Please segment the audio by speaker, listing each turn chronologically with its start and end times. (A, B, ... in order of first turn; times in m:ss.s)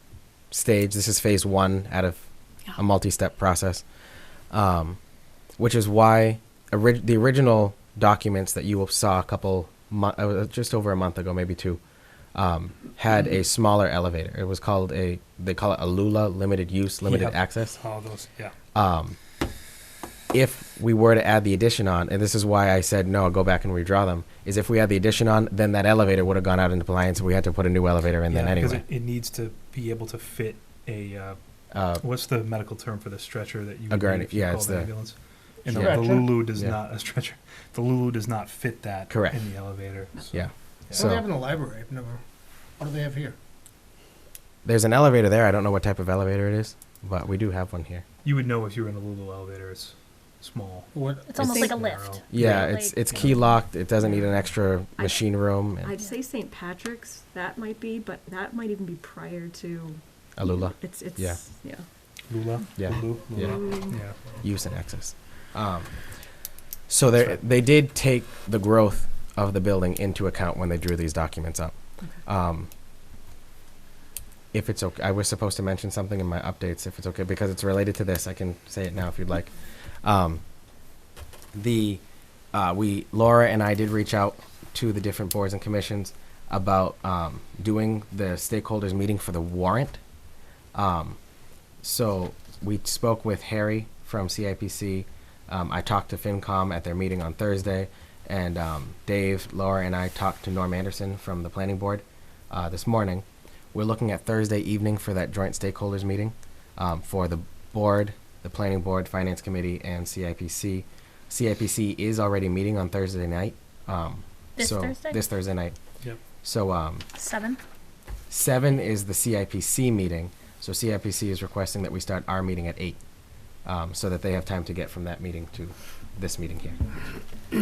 0:00.5-0:03.9 A
0:04.5-0:05.0 A
0:05.6-0:11.8 A
0:12.3-0:17.8 A
0:17.0-0:18.6 B
0:18.7-0:19.2 A
0:20.3-0:28.8 A
0:28.3-0:31.4 B
0:31.7-0:32.0 A
0:31.9-0:41.1 B
0:33.9-0:36.8 A
0:35.6-0:36.5 C
0:39.1-0:39.7 A
0:40.3-0:41.3 A
0:40.9-0:42.2 C
0:42.8-0:43.4 C
0:44.6-0:48.0 A
0:48.2-0:50.9 B
0:50.9-0:52.1 C
0:51.2-0:53.6 D
0:51.4-0:51.7 A
0:52.0-0:53.3 B
0:52.3-0:55.9 A
0:55.8-1:01.8 E
1:00.4-1:01.4 A
1:02.3-1:04.3 B
1:02.8-1:12.7 A
1:03.3-1:04.0 E
1:14.5-1:20.4 A
1:21.5-1:30.0 A
1:30.7-1:31.2 A
1:31.8-1:55.7 A
1:54.6-1:55.2 D
1:56.3-1:57.1 A
1:57.1-1:57.6 D
1:58.3-2:03.0 A
2:03.6-2:07.1 A